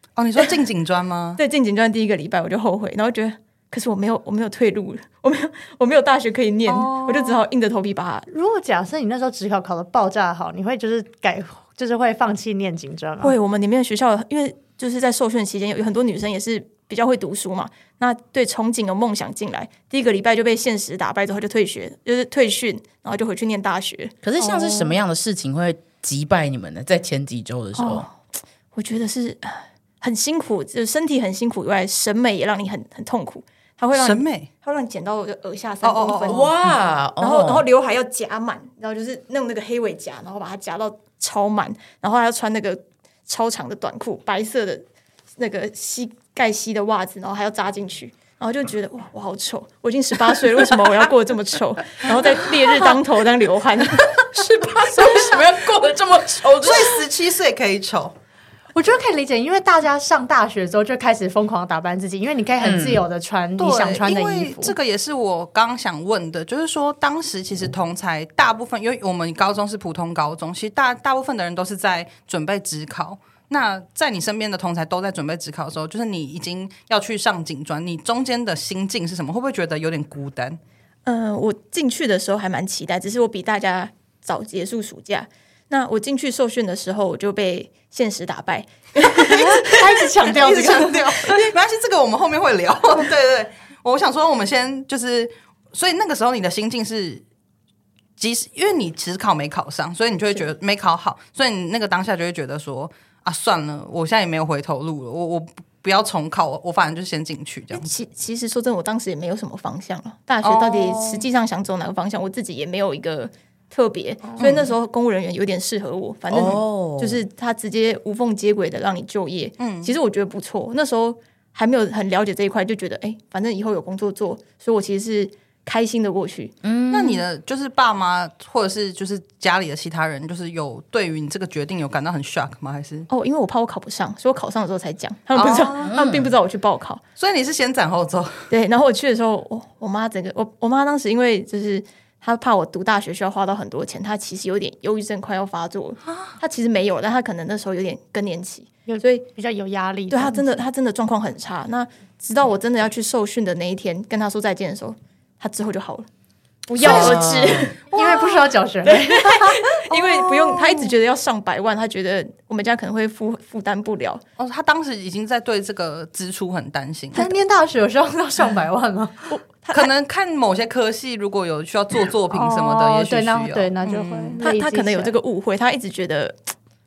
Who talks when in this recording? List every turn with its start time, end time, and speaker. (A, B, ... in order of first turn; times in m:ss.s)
0:00.2-0:01.4 A
0:01.4-0:08.3 B
0:06.7-0:07.4 A
0:08.3-0:13.4 C
0:13.2-0:24.9 B
0:24.2-0:28.1 D
0:27.8-0:36.5 B
0:33.9-0:34.5 A
0:35.8-0:36.5 A
0:36.2-0:37.6 D
0:37.2-0:44.8 B
0:45.4-0:54.0 B
0:54.0-0:57.0 D
0:56.6-0:58.2 A
0:58.8-1:04.8 C
1:02.6-1:03.0 D
1:03.6-1:20.6 A
1:21.1-1:29.9 B
1:29.4-1:31.0 C
1:30.2-1:37.2 A
1:31.2-1:31.5 B
1:38.2-1:47.9 A
1:47.7-2:06.6 B
1:50.4-1:51.2 A
1:54.4-1:54.7 A
1:56.3-1:57.2 D
1:59.6-2:00.0 A
2:06.6-2:07.2 D
2:06.9-2:13.1 A
2:13.1-2:17.0 B
2:15.3-2:16.0 A
2:15.9-2:16.3 D
2:17.2-2:18.5 A
2:18.5-2:29.3 B
2:28.9-2:30.6 C
2:30.1-2:36.1 B
2:36.7-2:44.2 B
2:36.8-2:37.8 D
2:36.8-2:37.2 C
2:36.8-2:37.2 A
2:37.9-2:39.7 C
2:39.9-2:40.9 A
2:44.4-2:47.3 A
2:47.1-2:49.3 C
2:49.3-2:49.9 B
2:49.7-2:54.4 A
2:52.3-2:55.2 C
2:54.4-2:56.4 B